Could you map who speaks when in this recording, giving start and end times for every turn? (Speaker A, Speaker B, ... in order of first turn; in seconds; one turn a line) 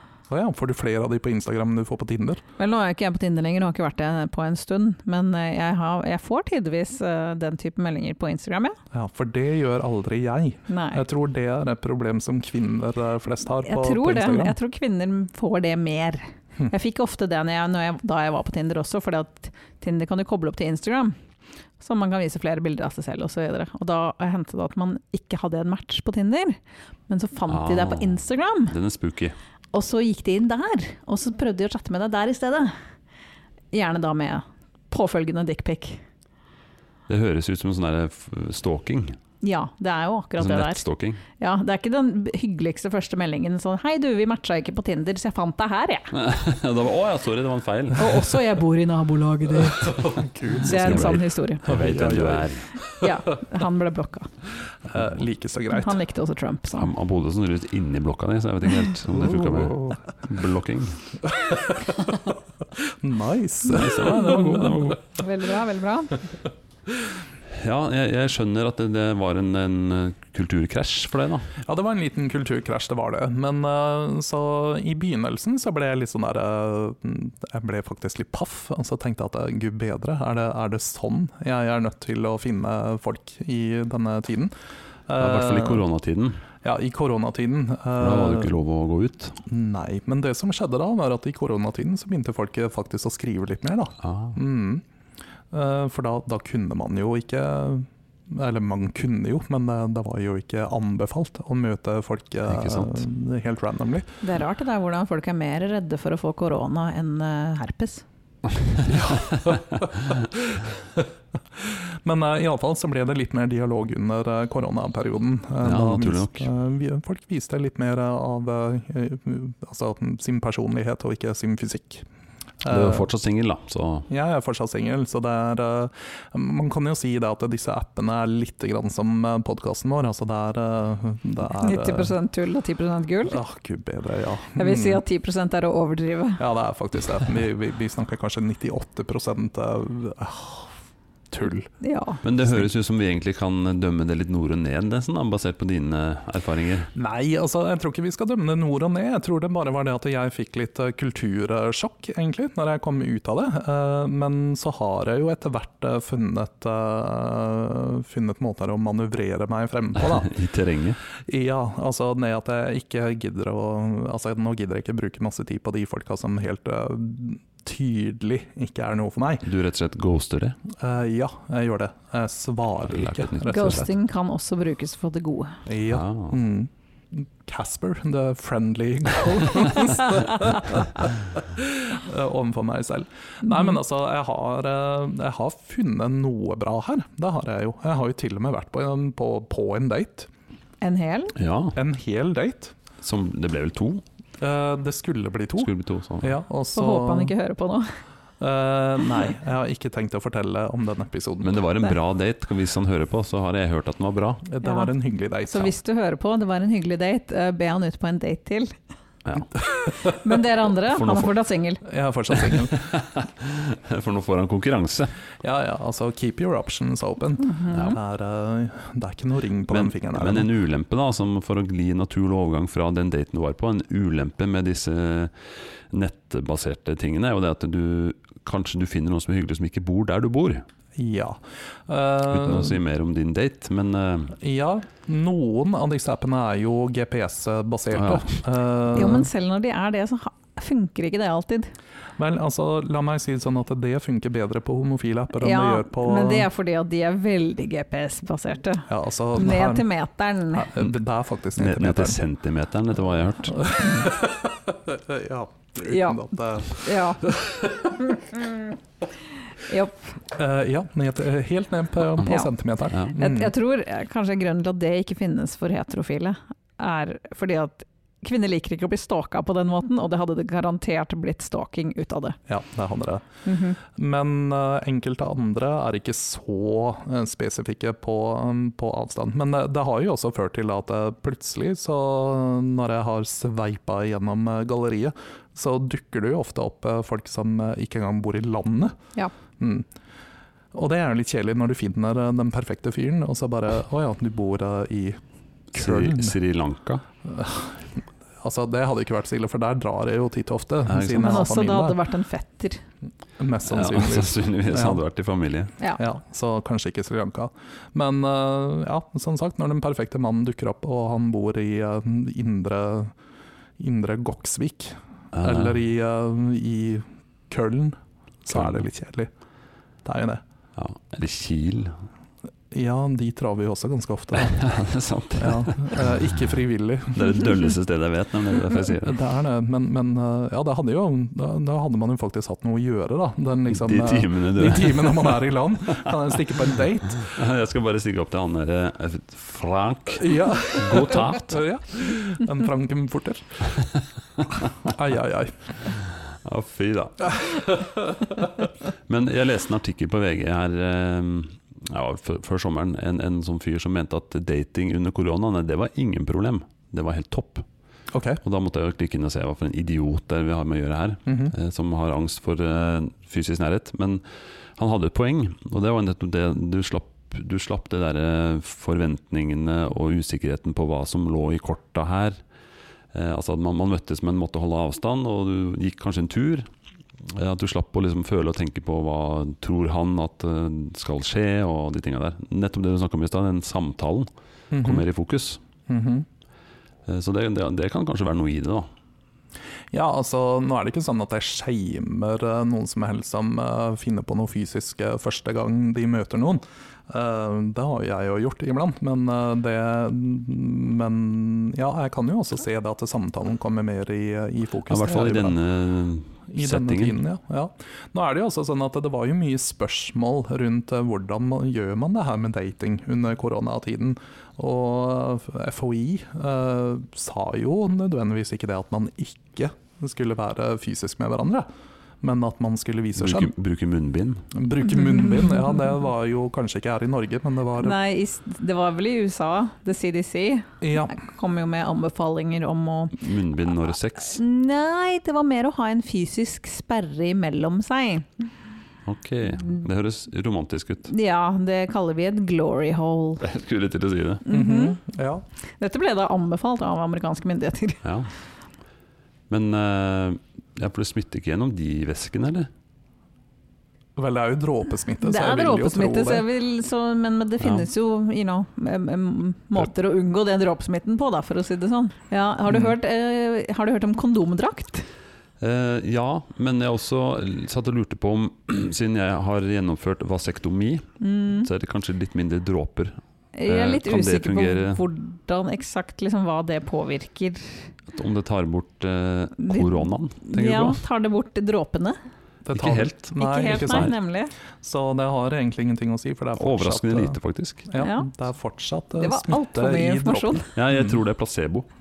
Speaker A: 0.3-2.4
Speaker B: 2.6-8.8
Speaker A: 8.9-14.5
Speaker B: 10.7-11.0
Speaker B: 13.6-21.1
Speaker B: 21.8-28.7
Speaker C: 27.5-29.4
Speaker B: 29.7-32.7
Speaker B: 33.7-36.0
Speaker C: 37.1-39.2
Speaker B: 39.4-40.8
Speaker C: 40.4-41.2
Speaker B: 41.4-46.1
Speaker C: 46.1-48.1
Speaker B: 48.0-50.0
Speaker A: 49.5-53.1
Speaker B: 50.6-51.8
Speaker C: 50.6-52.7
Speaker B: 53.0-54.3
Speaker A: 54.9-56.0
Speaker B: 55.7-56.9
Speaker C: 56.7-61.0
Speaker A: 59.1-60.0
Speaker A: 61.2-65.0
Speaker C: 63.6-65.0
Speaker B: 65.1-66.2
Speaker C: 67.5-71.5
Speaker A: 71.6-84.5
Speaker A: 85.1-85.8
Speaker C: 85.2-86.4
Speaker A: 86.6-88.5
Speaker C: 88.0-89.4
Speaker A: 89.5-94.8
Speaker C: 94.0-94.4
Speaker A: 95.5-104.1
Speaker C: 102.5-103.0
Speaker B: 104.2-108.0
Speaker A: 108.8-122.0
Speaker C: 115.6-116.5
Speaker A: 122.6-123.1
Speaker C: 122.7-124.1
Speaker A: 124.1-132.1
Speaker B: 131.6-133.4
Speaker A: 133.3-135.0
Speaker B: 134.6-136.4
Speaker A: 136.4-140.7
Speaker A: 141.3-141.7
Speaker B: 141.8-142.2
Speaker C: 142.2-146.9
Speaker A: 146.9-160.3
Speaker C: 160.0-161.0
Speaker A: 161.2-169.4
Speaker C: 169.4-170.6
Speaker A: 170.7-173.9
Speaker C: 172.9-173.9
Speaker B: 173.4-175.6
Speaker A: 175.7-190.3
Speaker C: 175.9-176.4
Speaker B: 190.8-191.3
Speaker C: 191.3-191.8
Speaker A: 191.7-192.8
Speaker C: 193.0-194.0
Speaker A: 194.4-197.3
Speaker C: 195.6-196.3
Speaker B: 196.7-197.9
Speaker A: 198.4-201.6
Speaker C: 201.4-204.4
Speaker A: 204.4-205.7
Speaker B: 204.6-204.9
Speaker B: 205.5-208.7
Speaker B: 209.8-211.8
Speaker C: 210.9-211.3
Speaker A: 211.8-212.9
Speaker C: 212.4-215.1
Speaker A: 215.4-220.5
Speaker B: 217.4-218.0
Speaker C: 217.7-218.0
Speaker C: 219.7-230.6
Speaker A: 230.9-232.8
Speaker C: 232.3-234.4
Speaker A: 234.4-239.3
Speaker C: 237.9-238.4
Speaker B: 238.9-241.7
Speaker A: 242.2-246.5
Speaker B: 245.3-250.8
Speaker A: 248.9-249.9
Speaker A: 250.5-252.2
Speaker C: 251.6-253.8
Speaker A: 253.6-258.0
Speaker B: 255.8-257.3
Speaker B: 258.1-258.6
Speaker B: 259.6-260.0
Speaker A: 260.3-263.5
Speaker B: 262.2-262.5
Speaker B: 263.1-272.4
Speaker A: 272.5-273.3
Speaker B: 273.4-273.8
Speaker A: 273.8-288.9
Speaker A: 289.6-289.9
Speaker A: 290.7-295.2
Speaker A: 295.7-296.4
Speaker C: 295.7-297.0
Speaker A: 297.2-302.0
Speaker C: 300.9-301.4
Speaker B: 301.1-302.8
Speaker A: 303.4-305.0
Speaker C: 303.7-305.7
Speaker A: 306.0-313.1
Speaker A: 313.8-319.3
Speaker C: 315.3-315.8
Speaker C: 318.5-318.8
Speaker A: 320.0-320.4
Speaker C: 320.8-321.9
Speaker A: 322.7-324.6
Speaker C: 324.4-326.1
Speaker A: 325.4-327.5
Speaker C: 327.1-329.2
Speaker A: 328.8-337.3
Speaker C: 333.7-336.1
Speaker C: 337.2-341.6
Speaker A: 340.2-343.8
Speaker A: 344.8-345.7
Speaker C: 345.9-347.7
Speaker C: 349.1-357.6
Speaker A: 358.1-358.4
Speaker C: 358.4-364.2
Speaker A: 361.2-361.5
Speaker C: 364.8-372.4
Speaker C: 373.1-376.7
Speaker C: 377.2-384.3
Speaker A: 384.7-385.0
Speaker C: 384.8-385.6
Speaker A: 385.9-386.2
Speaker C: 387.1-388.9
Speaker A: 389.9-405.6
Speaker C: 404.9-407.2
Speaker A: 406.5-421.7
Speaker A: 422.2-423.5
Speaker C: 423.2-424.4
Speaker A: 424.5-428.0
Speaker B: 427.8-433.2
Speaker A: 430.8-431.1
Speaker C: 433.2-434.4
Speaker B: 434.2-438.4
Speaker C: 439.1-441.1
Speaker B: 441.1-443.4
Speaker C: 443.4-444.4
Speaker B: 444.4-445.0
Speaker A: 444.5-445.4
Speaker B: 445.8-448.0
Speaker C: 448.0-448.3
Speaker C: 449.5-452.7
Speaker A: 454.1-456.4
Speaker B: 455.2-465.1
Speaker C: 457.6-457.9
Speaker C: 465.6-475.0
Speaker B: 471.2-471.7
Speaker B: 473.6-477.9
Speaker C: 478.1-481.0
Speaker B: 479.6-482.2
Speaker A: 482.6-484.1
Speaker C: 482.7-484.1
Speaker B: 483.4-484.5
Speaker A: 484.8-487.4
Speaker C: 486.6-487.9
Speaker A: 487.9-491.1
Speaker B: 488.0-488.3
Speaker B: 489.2-490.7
Speaker C: 490.7-491.9